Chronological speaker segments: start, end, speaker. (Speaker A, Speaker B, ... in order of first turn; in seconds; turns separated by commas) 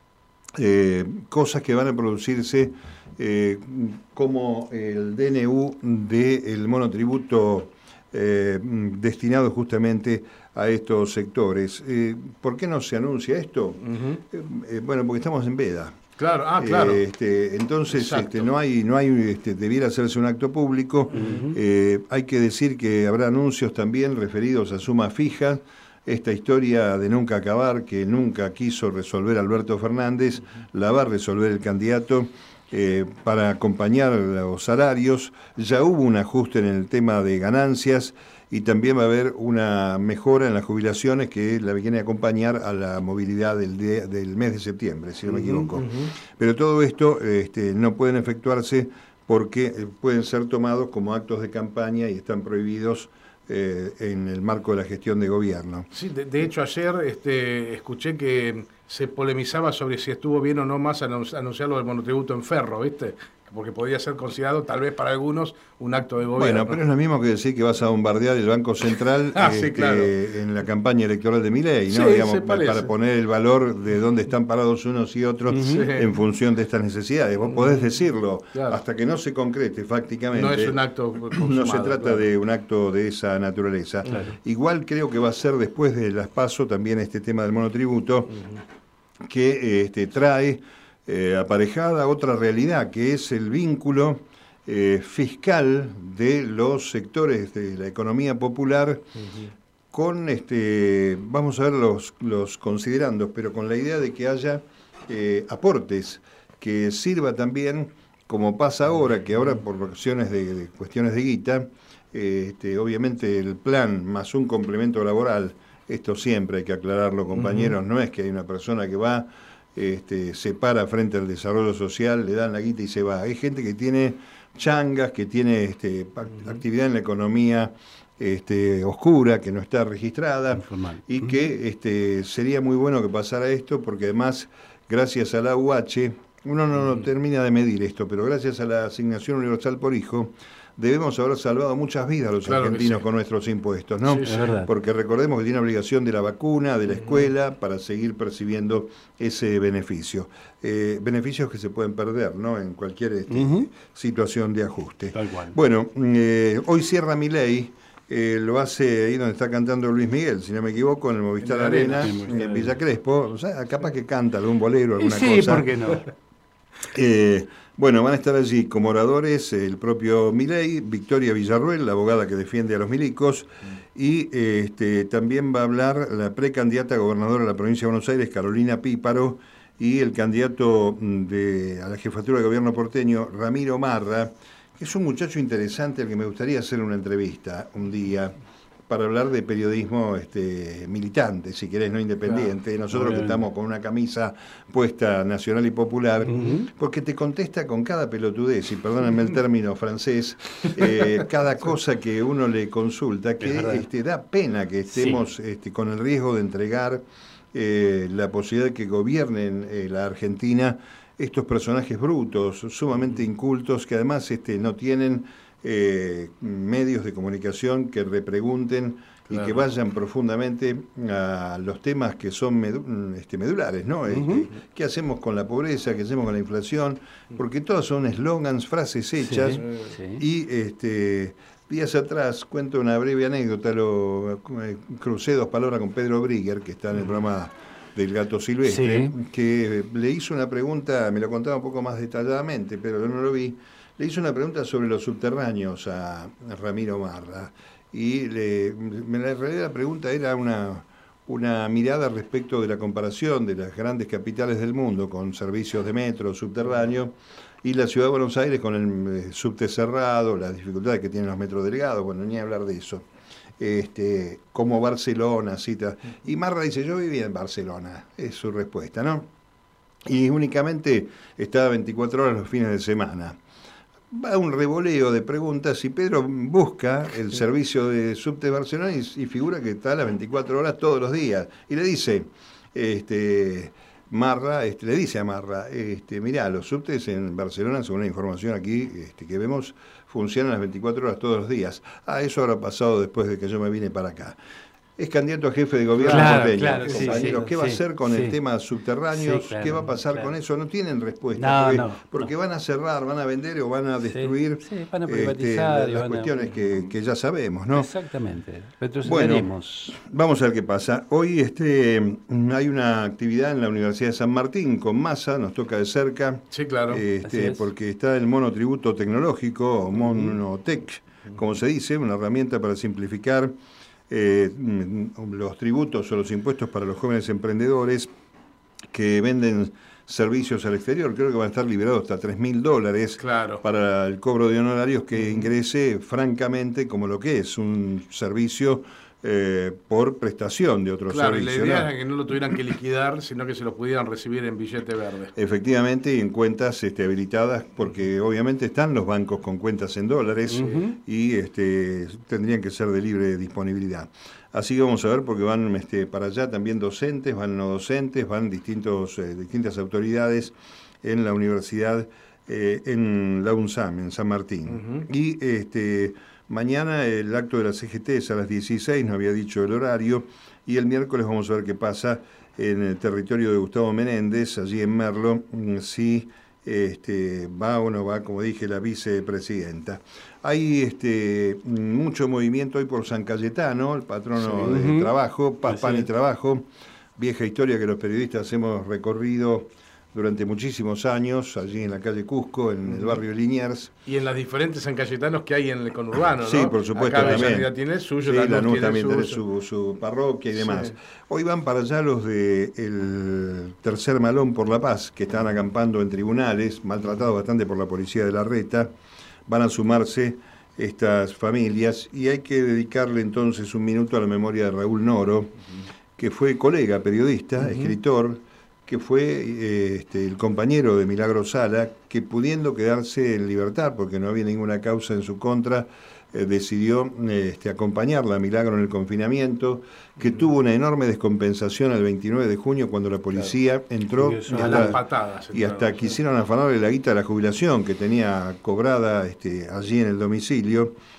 Speaker A: 0.6-16.0, Speaker B: 13.8-14.2, Speaker B: 16.2-17.0, Speaker A: 16.6-55.9, Speaker B: 17.9-18.5, Speaker C: 21.1-21.6, Speaker B: 45.3-46.1, Speaker B: 55.9-66.8, Speaker A: 66.4-80.8, Speaker B: 69.3-70.2, Speaker B: 71.9-72.9, Speaker C: 75.5-75.9, Speaker B: 75.7-76.1, Speaker B: 77.5-77.9, Speaker B: 78.5-78.8, Speaker B: 80.3-82.3, Speaker A: 81.3-88.3, Speaker C: 84.1-84.3, Speaker A: 89.3-99.1, Speaker A: 99.9-165.7, Speaker B: 117.3-117.8, Speaker C: 130.7-131.3, Speaker B: 142.5-143.0, Speaker B: 144.1-144.5, Speaker C: 144.2-144.7, Speaker B: 146.9-147.3, Speaker C: 153.3-153.7, Speaker C: 155.1-155.6, Speaker B: 161.4-162.5, Speaker C: 162.0-162.8, Speaker C: 165.0-166.1, Speaker A: 166.9-188.3, Speaker A: 188.9-229.6, Speaker B: 192.2-192.6, Speaker C: 192.9-193.4, Speaker C: 196.2-196.7, Speaker C: 203.4-203.8, Speaker C: 204.9-205.2, Speaker B: 219.3-219.6, Speaker C: 224.1-224.5, Speaker C: 229.2-230.2, Speaker B: 229.6-229.9, Speaker A: 230.2-263.1, Speaker C: 238.6-239.1, Speaker A: 263.6-269.3, Speaker A: 270.1-273.4, Speaker A: 274.1-294.4, Speaker A: 295.0-307.9, Speaker B: 296.0-297.5, Speaker C: 296.1-298.4, Speaker C: 299.1-300.4, Speaker C: 301.4-302.3, Speaker C: 304.0-306.5, Speaker B: 306.6-306.8, Speaker C: 307.7-310.0, Speaker A: 309.0-323.6, Speaker B: 316.5-317.0, Speaker C: 317.2-317.7, Speaker A: 324.1-328.1, Speaker A: 328.9-341.9, Speaker B: 333.2-333.6, Speaker B: 335.2-335.5, Speaker B: 341.1-345.3, Speaker A: 345.3-393.9, Speaker C: 350.5-351.0, Speaker B: 364.7-365.1, Speaker B: 384.4-384.7, Speaker C: 384.6-385.1, Speaker B: 385.7-386.1, Speaker B: 392.9-393.2, Speaker B: 394.1-399.4, Speaker A: 396.4-397.7, Speaker A: 398.2-408.9, Speaker B: 400.5-400.9, Speaker A: 409.5-415.5, Speaker A: 416.2-435.0, Speaker B: 417.6-417.9, Speaker C: 434.2-435.0, Speaker B: 434.4-436.2, Speaker A: 435.5-440.9